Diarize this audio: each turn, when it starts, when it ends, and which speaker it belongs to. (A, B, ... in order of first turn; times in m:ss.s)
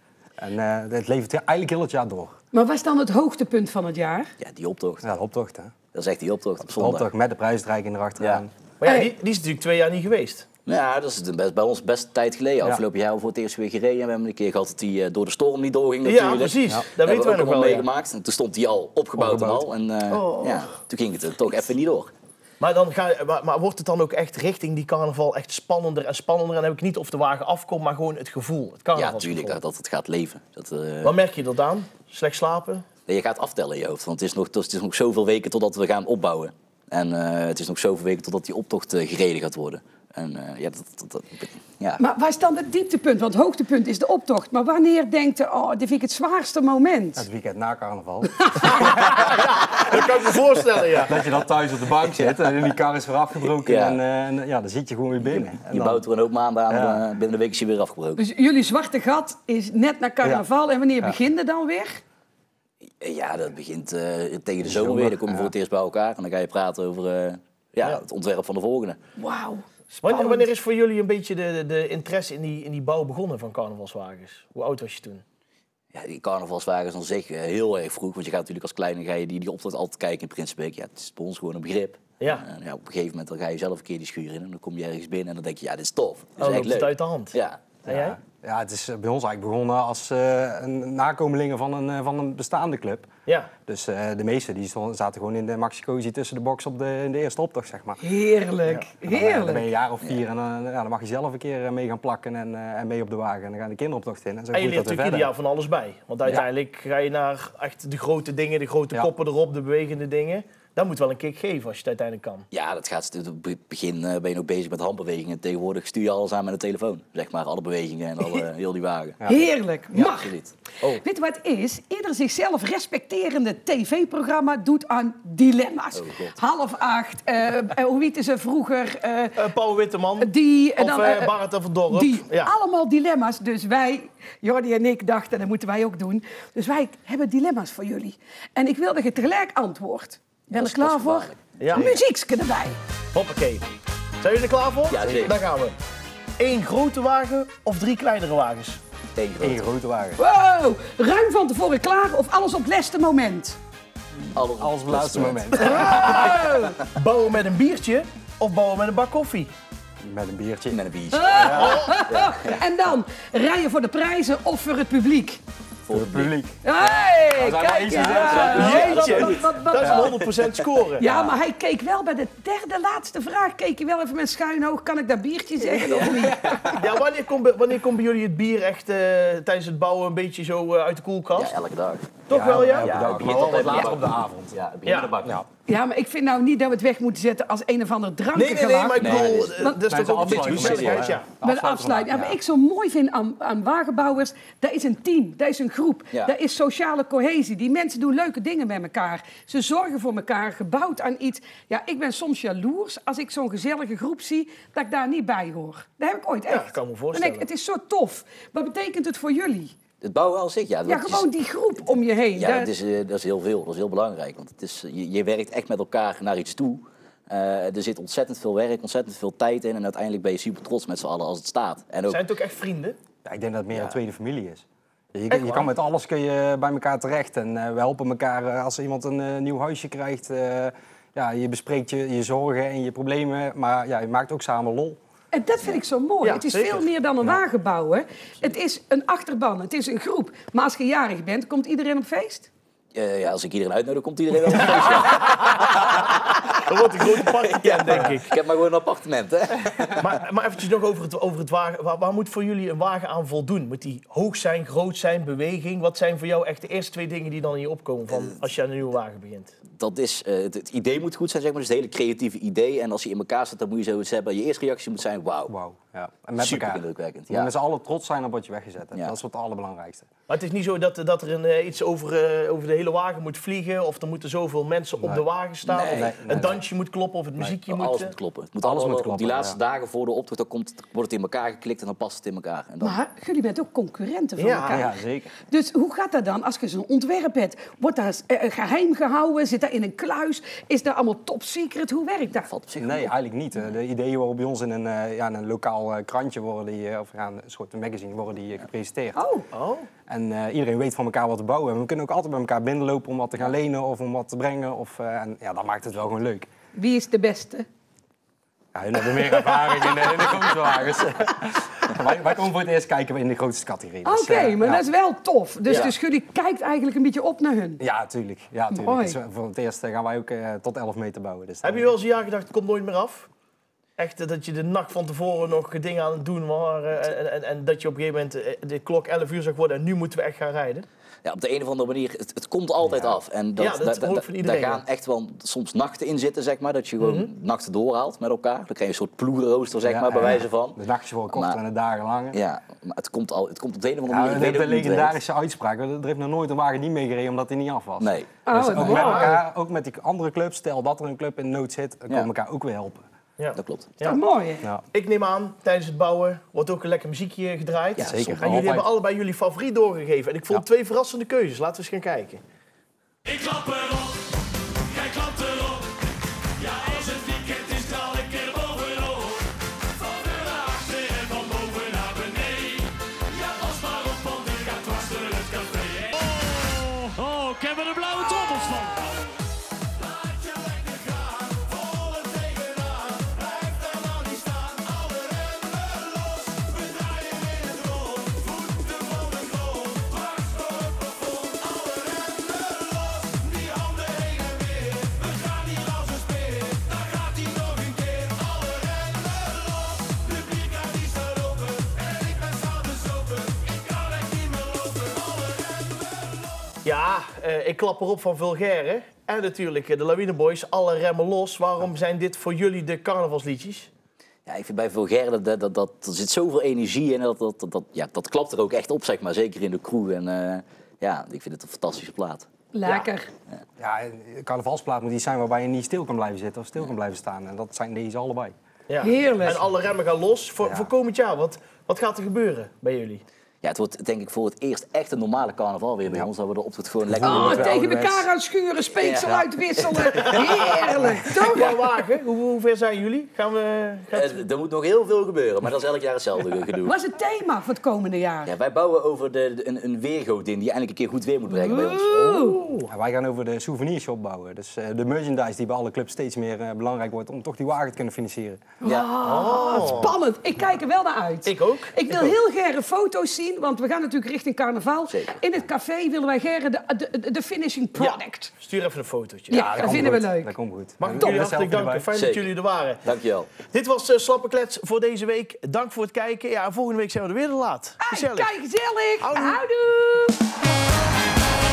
0:00.4-0:02.4 A
0:02.5-0:04.3 B
0:04.4-0:05.0 C
0:05.0-0:05.7 A
0:05.9-0:07.1 C
0:06.7-0:08.5 A
0:08.8-0:10.5 D
0:10.7-0:22.1 C
0:16.0-0:17.9 D
0:19.2-0:19.7 A
0:20.1-0:20.6 B
0:22.6-0:29.6 D
0:29.0-0:31.2 C
0:31.0-0:32.9 D
0:33.1-0:42.0 C
0:42.0-0:47.3 B
0:47.2-0:49.2 A
0:49.2-0:51.2 D
0:51.0-0:56.1 A
0:52.2-0:52.7 C
0:53.5-0:54.0 C
0:55.2-0:58.2 C
0:56.7-0:57.0 A
0:58.2-1:02.0 B
1:03.0-1:09.0 C
1:04.6-1:05.5 A
1:09.2-1:10.5 B
1:09.9-1:15.2 D
1:15.9-1:27.8 C
1:26.4-1:27.4 D
1:27.9-1:28.2 D
1:27.9-1:33.1 A
1:33.7-1:38.0 A
1:38.0-1:39.7 B
1:38.7-1:45.3 A
1:44.5-1:52.5 D
1:52.5-1:59.2 C
1:59.3-2:00.4 B
1:59.9-2:01.0 C
2:01.0-2:09.4 B
2:05.9-2:06.4 C
2:09.4-2:12.5 D
2:10.2-2:11.4 B
2:11.9-2:22.8 B
2:20.5-2:21.4 C
2:21.6-2:22.0 D
2:23.1-2:23.6 D
2:24.2-2:25.8 D
2:24.9-2:25.4 C
2:25.0-2:25.3 A
2:26.4-2:28.8 D
2:29.2-2:29.6 C
2:29.4-2:30.2 A
2:30.2-2:33.6 B
2:34.4-2:35.7 C
2:34.5-2:36.4 A
2:35.6-2:36.8 B
2:36.9-2:39.5 D
2:40.0-2:40.8 A
2:40.7-2:42.6 C
2:41.1-2:45.4 B
2:41.4-2:41.7 A
2:41.4-2:42.1 D
2:45.9-2:46.3 C
2:45.9-2:46.6 A
2:46.6-2:50.1 B
2:47.4-2:49.3 A
2:47.4-2:50.3 C
2:48.3-2:51.1 D
2:49.8-2:50.1 A
2:51.0-2:56.8 B
2:55.8-2:56.4 C
2:56.7-3:01.5 D
3:01.4-3:05.4 C
3:02.3-3:03.1 D
3:02.3-3:04.6 A
3:04.8-3:05.2 D
3:05.7-3:09.9 B
3:08.3-3:11.3 D
3:09.0-3:09.6 C
3:09.8-3:12.4 A
3:10.4-3:11.0 C
3:11.4-3:29.8 B
3:26.5-3:27.5 D
3:30.0-3:31.3 C
3:30.9-3:32.7 B
3:32.4-3:42.2 C
3:42.1-3:43.0 D
3:43.2-3:55.0 A
3:45.3-3:45.6 B
3:55.3-4:02.5 B
3:56.2-3:56.9 D
4:03.0-4:06.1 C
4:06.5-4:08.3 D
4:07.4-4:10.1 C
4:10.0-4:19.6 D
4:19.8-4:25.5 C
4:25.5-4:30.1 A
4:26.4-4:27.5 C
4:30.3-4:38.2 D
4:35.0-4:35.2 A
4:35.7-4:36.2 C
4:35.8-4:36.6 A
4:37.7-4:43.0 C
4:38.6-4:39.6 A
4:42.8-4:44.9 B
4:44.4-4:44.8 D
4:44.7-4:45.3 A
4:45.5-4:52.5 B
4:52.3-4:53.1 C
4:52.8-4:59.2 A
4:59.2-4:59.5 B
4:59.5-4:59.9 D
5:00.1-5:06.5 A
5:06.7-5:07.7 B
5:08.7-5:14.9 A
5:14.0-5:17.8 B
5:15.7-5:15.9 D
5:17.8-5:21.9 A
5:18.7-5:19.2 B
5:21.6-5:23.3 D
5:24.0-5:30.9 D
5:31.2-5:40.8 C
5:33.6-5:34.8 D
5:37.0-5:37.3 D
5:39.8-5:42.4 A
5:41.3-5:41.6 C
5:42.3-5:45.2 C
5:44.1-5:53.1 A
5:48.0-5:49.1 C
5:48.5-5:49.4 B
5:48.8-5:49.4 D
5:53.4-5:54.2 D
5:53.6-5:54.0 C
5:54.0-5:54.7 B
5:54.9-6:02.4 D
5:58.0-5:58.7 C
5:58.0-5:58.9 A
6:07.5-6:07.8 E
6:08.3-6:08.7 E
6:10.9-6:12.5 E
6:17.5-6:18.1 E
6:46.8-6:53.9 D
6:54.5-7:02.5 C
7:02.7-7:03.3 B
7:03.8-7:08.6 A
7:08.9-7:13.2 D
7:09.0-7:09.6 B
7:10.6-7:10.9 A
7:13.6-7:17.7 C
7:17.1-7:18.3 A
7:17.2-7:21.8 B
7:19.0-7:21.0 C
7:19.3-7:19.5 A
7:20.2-7:20.5 D
7:20.9-7:21.2 A
7:21.4-7:24.4 D
7:24.1-7:26.9 C
7:26.8-7:28.5 B
7:28.4-7:32.3 C
7:31.5-7:32.6 B
7:32.1-7:32.9 D
7:32.8-7:38.6 A
7:38.8-7:48.5 B
7:38.8-7:39.1 C
7:39.2-7:40.2 D
7:41.4-7:42.4 D
7:45.1-7:45.4 C
7:48.0-7:49.8 D
7:49.5-7:50.5 B
7:49.5-7:52.1 A
7:51.0-7:53.0 D
7:52.1-7:52.5 C
7:53.0-7:53.5 C
7:53.6-7:58.5 D
7:58.0-8:00.4 B
7:59.2-7:59.6 D